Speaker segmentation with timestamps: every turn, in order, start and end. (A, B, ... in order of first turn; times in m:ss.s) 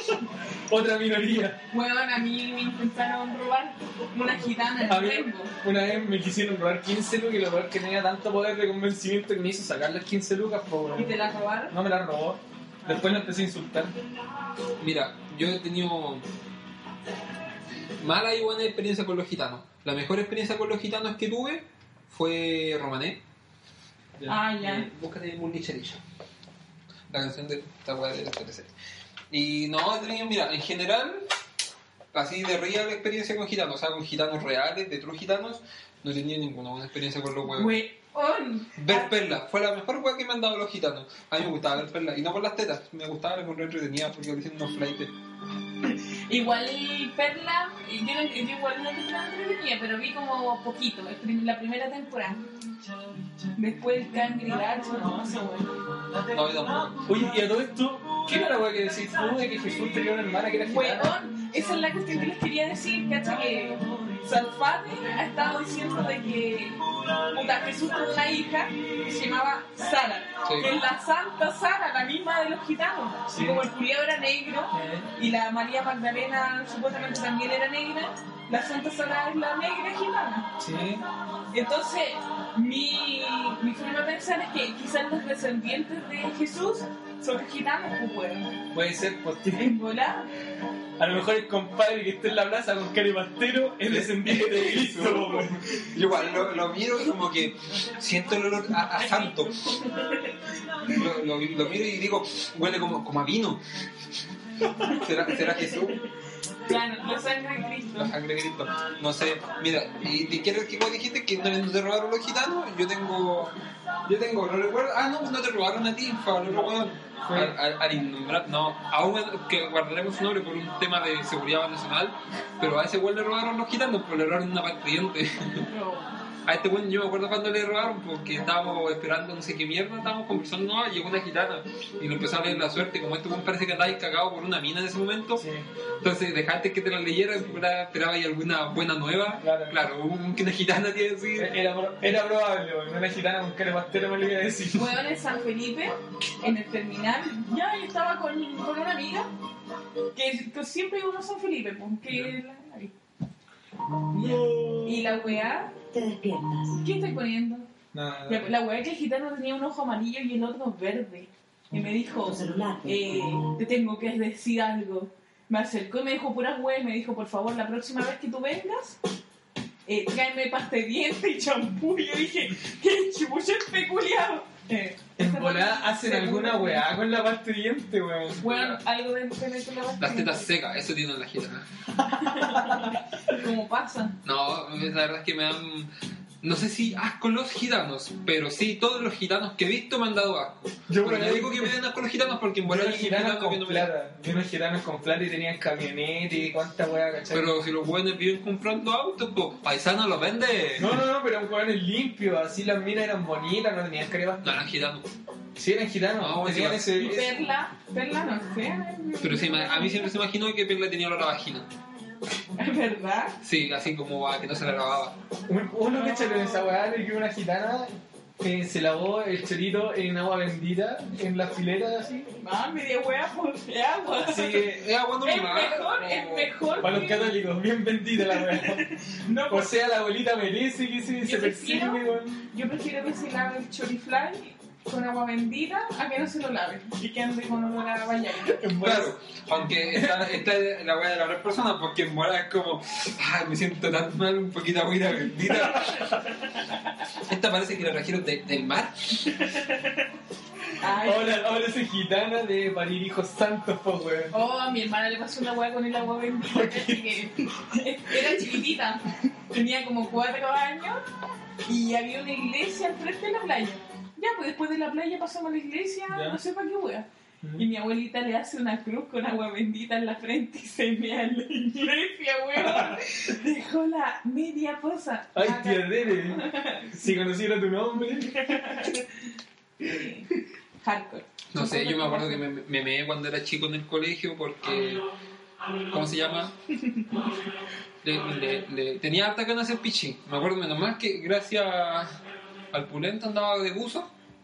0:00.7-0:01.6 A
0:01.7-0:05.5 B
0:04.8-0:14.0 A
0:10.9-0:11.7 B
0:14.8-0:16.2 C
0:18.0-0:23.2 C
0:24.3-0:24.9 B
0:24.6-0:26.0 C
0:27.1-0:28.7 C
0:29.3-0:31.2 C
0:32.1-0:37.8 C
0:37.5-0:39.1 B
0:38.8-0:45.1 C
0:45.8-0:52.4 B
0:53.5-0:55.8 B
0:56.3-0:57.0 C
0:57.0-1:01.1 A
1:00.6-1:20.5 B
1:10.4-1:10.7 C
1:13.3-1:13.7 A
1:14.7-1:15.1 A
1:20.6-1:21.0 A
1:21.5-1:28.6 B
1:28.7-1:29.8 A
1:29.5-1:30.3 B
1:31.0-1:35.6 A
1:33.9-1:39.6 C
1:39.2-1:40.4 B
1:40.9-1:43.6 C
1:44.8-1:46.0 C
1:44.8-1:46.0 B
1:46.6-1:48.1 B
1:48.0-1:53.5 C
1:54.0-2:05.6 C
1:57.3-1:57.5 A
2:05.6-2:06.1 B
2:06.4-2:15.4 C
2:15.4-2:15.6 A
2:16.0-2:21.5 C
2:19.4-2:19.8 A
2:21.4-2:24.9 A
2:24.7-2:29.3 B
2:30.1-2:32.9 B
2:34.1-2:35.7 B
2:34.1-2:35.1 A
2:35.9-2:36.8 D
2:36.7-2:37.7 B
2:37.9-2:38.5 A
2:38.2-2:49.0 B
2:42.3-2:43.4 D
2:49.8-2:56.9 B
2:55.2-2:58.4 A
2:58.4-2:58.8 C
2:58.4-3:00.5 B
3:00.0-3:01.7 C
3:02.1-3:04.2 B
3:02.3-3:02.8 A
3:04.2-3:05.9 C
3:06.4-3:13.9 C
3:10.9-3:11.8 A
3:12.6-3:17.5 A
3:17.3-3:21.0 C
3:20.8-3:24.6 A
3:24.4-3:25.1 C
3:25.6-3:27.3 A
3:26.2-3:27.2 C
3:27.0-3:30.1 B
3:29.2-3:31.7 C
3:32.6-3:33.4 B
3:33.4-3:35.1 C
3:35.5-3:42.3 A
3:35.9-3:36.7 B
3:42.4-3:44.7 B
3:44.2-3:46.6 C
3:45.2-3:47.4 B
3:46.8-3:48.8 A
3:48.3-3:49.7 B
3:49.5-3:52.4 A
3:51.2-3:58.6 B
3:58.5-3:59.1 A
3:58.8-4:06.2 C
3:59.9-4:00.4 A
4:07.2-4:09.5 C
4:10.8-4:11.4 B
4:10.8-4:14.3 A
4:14.3-4:21.0 B
4:16.4-4:17.3 A
4:21.6-4:37.0 B
4:26.1-4:26.4 A
4:32.6-4:33.0 A
4:35.3-4:38.4 A
4:38.3-4:39.1 B
4:39.8-4:40.3 B
4:40.8-4:42.4 B
4:41.5-4:45.0 C
4:45.9-4:46.5 C
4:48.0-4:52.2 C
4:52.7-4:54.1 C